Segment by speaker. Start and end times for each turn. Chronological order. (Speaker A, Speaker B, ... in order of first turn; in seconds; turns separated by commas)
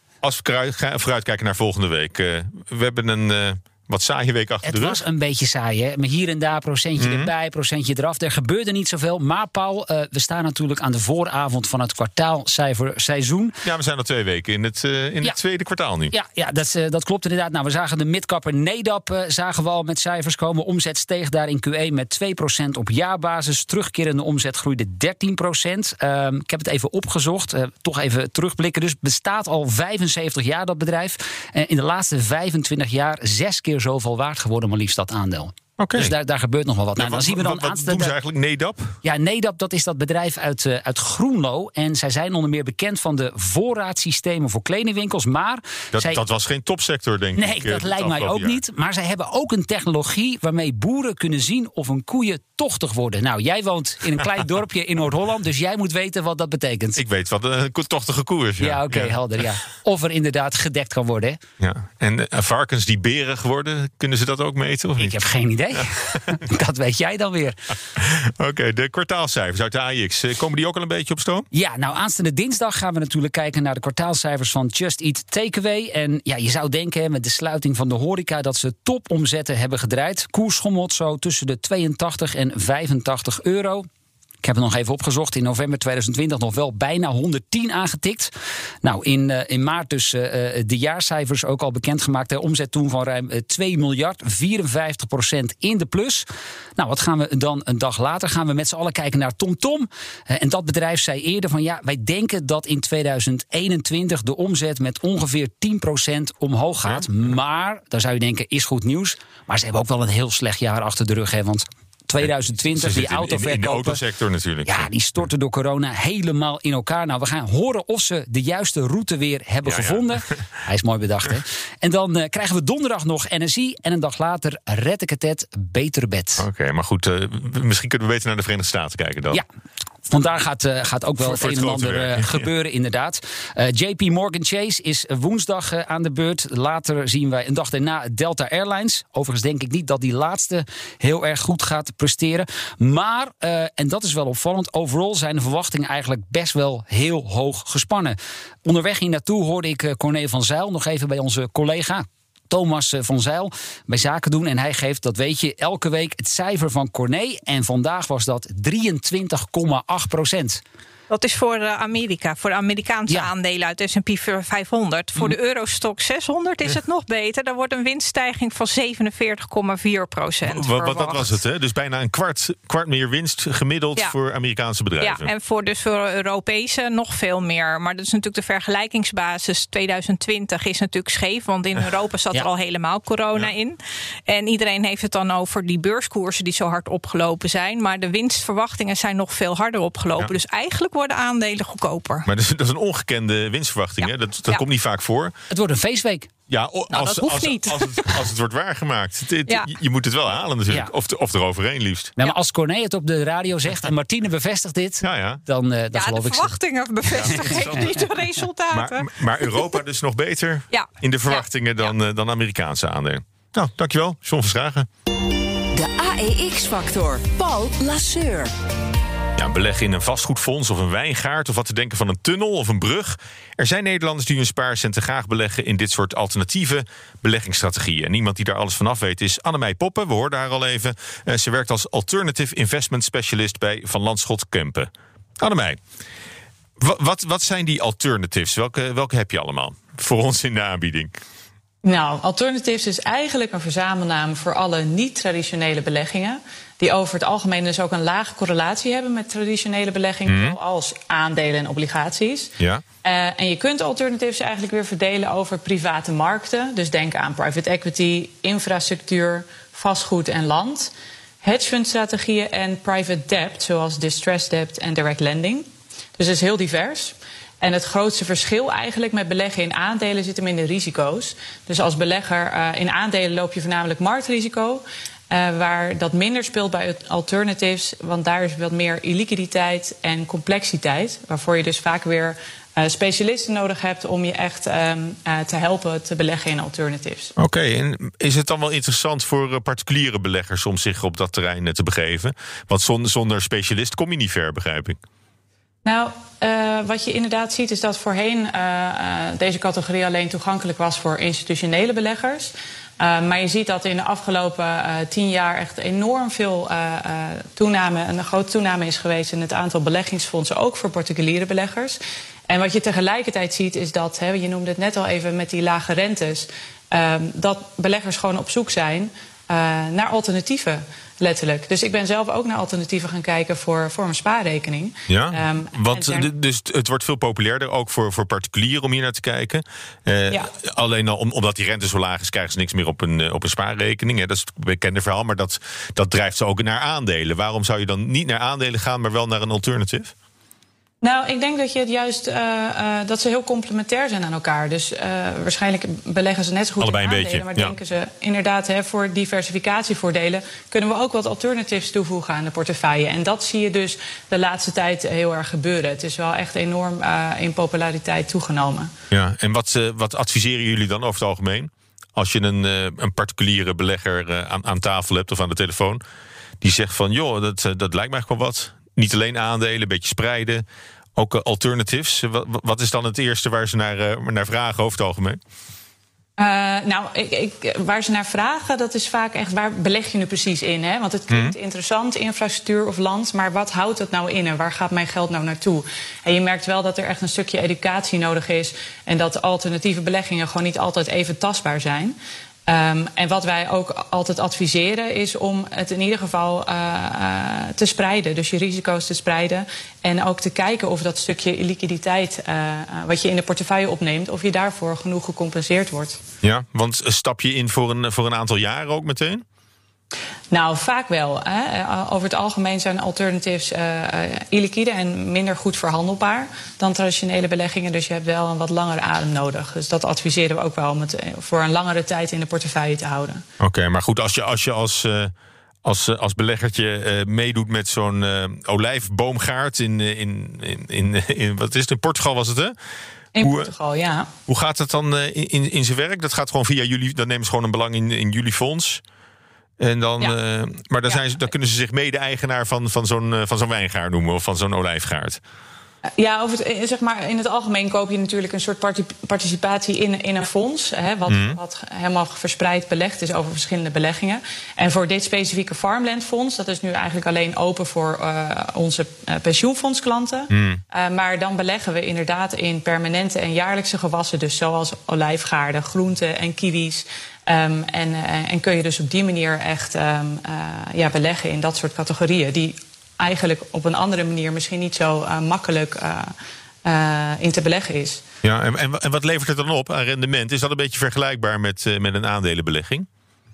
Speaker A: 0.2-5.0, Speaker B: 4.6-13.5, Speaker A: 7.0-7.3, Speaker A: 13.6-16.1, Speaker B: 16.1-38.1, Speaker A: 35.8-36.1, Speaker A: 37.0-38.9, Speaker B: 39.0-46.2, Speaker A: 45.9-48.6, Speaker B: 47.4-57.0, Speaker A: 57.0-59.1, Speaker B: 58.6-61.4, Speaker A: 61.6-65.2, Speaker B: 65.0-67.7, Speaker A: 65.8-66.4, Speaker A: 68.0-71.5, Speaker B: 71.5-83.9, Speaker B: 84.4-88.3, Speaker B: 88.8-114.0, Speaker A: 112.2-114.9, Speaker B: 114.7-126.5, Speaker A: 119.7-120.2, Speaker A: 126.4-129.4, Speaker B: 130.1-160.6, Speaker A: 131.2-132.5, Speaker C: 161.1-171.3, Speaker A: 170.4-175.3, Speaker C: 175.0-192.2, Speaker A: 192.2-195.3, Speaker B: 195.5-196.3, Speaker A: 196.5-202.2, Speaker C: 196.9-198.2, Speaker B: 202.2-206.5, Speaker A: 205.0-205.4, Speaker C: 205.9-209.7, Speaker A: 207.2-208.0, Speaker B: 207.4-207.8, Speaker A: 208.7-214.9, Speaker C: 210.7-211.9, Speaker D: 215.7-218.5, Speaker A: 219.4-234.9, Speaker A: 235.4-235.8, Speaker A: 236.8-241.1, Speaker E: 241.8-260.9, Speaker A: 250.3-250.6, Speaker E: 261.4-287.3, Speaker A: 287.4-295.0, Speaker E: 295.8-312.0, Speaker E: 312.5-326.3, Speaker A: 325.1-340.1, Speaker E: 341.0-358.9, Speaker A: 346.8-347.7, Speaker A: 359.1-366.0, Speaker A: 366.6-370.6, Speaker A: 371.1-375.4, Speaker E: 376.4-392.1, Speaker E: 392.7-406.2, Speaker A: 406.4-409.4, Speaker E: 410.5-423.4, Speaker A: 423.6-425.3, Speaker A: 425.8-432.7, Speaker E: 433.3-434.3, Speaker A: 433.4-433.7, Speaker A: 434.5-439.0, Speaker A: 439.8-445.4, Speaker E: 446.2-476.3, Speaker A: 451.3-451.6, Speaker A: 460.5-460.8, Speaker E: 476.8-478.2, Speaker A: 478.4-483.1